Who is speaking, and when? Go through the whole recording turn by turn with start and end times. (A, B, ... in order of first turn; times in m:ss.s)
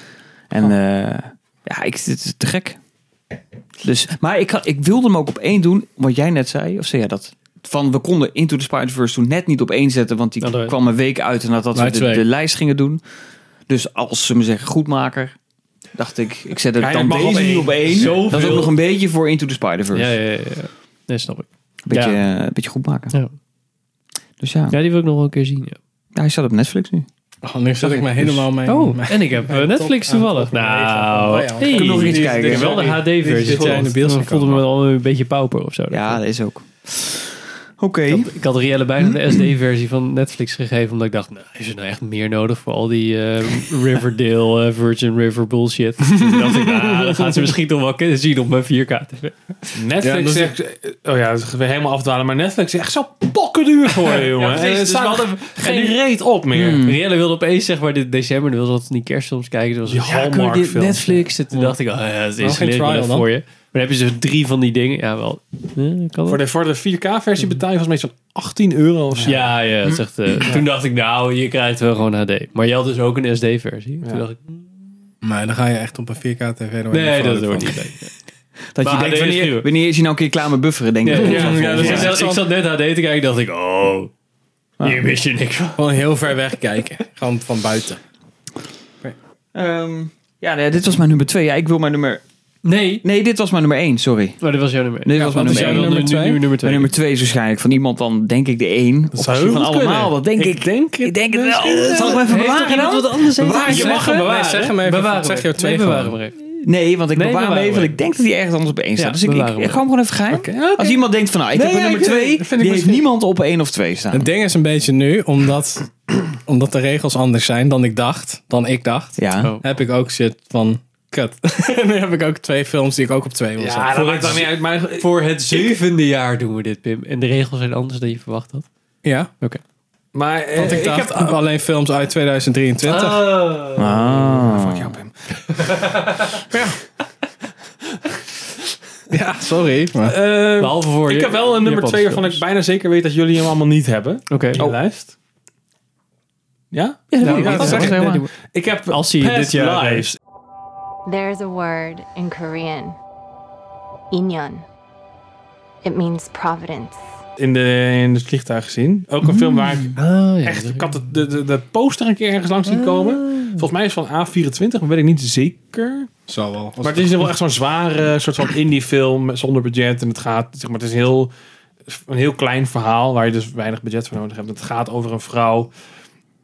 0:00.5-0:02.8 A
0:03.8-0:13.0 A
0:10.4-0:10.7 B
0:11.7-0:12.2 C
0:13.7-0:15.3 A
0:15.9-0:20.2 A
0:16.8-0:18.6 D
0:17.9-0:18.7 B
0:19.9-0:22.2 B
0:21.8-0:23.1 A
0:24.4-0:24.8 A
0:24.7-0:25.8 B
0:26.1-0:27.0 A
0:27.4-0:34.6 C
0:27.9-0:28.3 A
0:28.6-0:36.2 B
0:31.7-0:32.9 A
0:31.8-0:32.3 D
0:35.9-0:38.3 A
0:38.1-0:49.3 B
0:49.7-0:56.8 D
0:50.0-0:50.5 C
0:54.1-0:56.0 B
0:56.5-0:57.0 A
0:56.8-1:06.4 B
0:59.9-1:01.3 D
1:02.4-1:03.3 C
1:06.3-1:09.5 D
1:09.2-1:14.6 B
1:15.2-1:17.8 C
1:16.9-1:18.1 B
1:18.7-1:22.1 A
1:18.8-1:19.7 B
1:21.0-1:24.1 B
1:21.1-1:22.4 C
1:21.2-1:22.1 D
1:24.8-1:25.1 A
1:24.8-1:25.8 B
1:25.8-1:28.0 C
1:29.5-1:32.2 A
1:32.6-1:33.0 B
1:33.0-1:34.4 A
1:34.4-1:36.9 B
1:35.0-1:44.2 A
1:35.1-1:36.4 C
1:39.1-1:42.2 D
1:42.0-1:46.3 B
1:43.4-1:46.2 C
1:43.8-1:44.7 D
1:46.5-1:54.3 A
1:47.1-1:47.9 B
1:49.0-1:49.8 B
1:50.3-1:53.0 D
1:54.1-2:04.4 C
1:59.2-1:59.5 A
1:59.4-1:59.6 B
2:03.6-2:05.7 D
2:03.9-2:08.7 B
2:09.0-2:09.3 C
2:10.1-2:11.4 D
2:10.6-2:13.3 C
2:12.8-2:14.0 B
2:13.8-2:14.9 A
2:14.0-2:15.1 D
2:16.5-2:16.8 C
2:19.1-2:20.2 C
2:20.0-2:25.1 D
2:20.6-2:22.4 B
2:24.3-2:24.6 B
2:26.7-2:30.2 D
2:27.1-2:28.2 A
2:27.2-2:28.3 B
2:27.4-2:27.9 C
2:28.9-2:30.1 B
2:31.0-2:33.0 E
2:34.1-2:34.6 E
2:35.8-2:37.0 E
2:37.4-2:46.1 D
2:39.2-2:39.9 A
2:40.0-2:40.9 B
2:42.7-2:43.6 B
2:46.3-2:47.3 C
2:46.8-2:51.3 D
2:51.9-2:55.7 D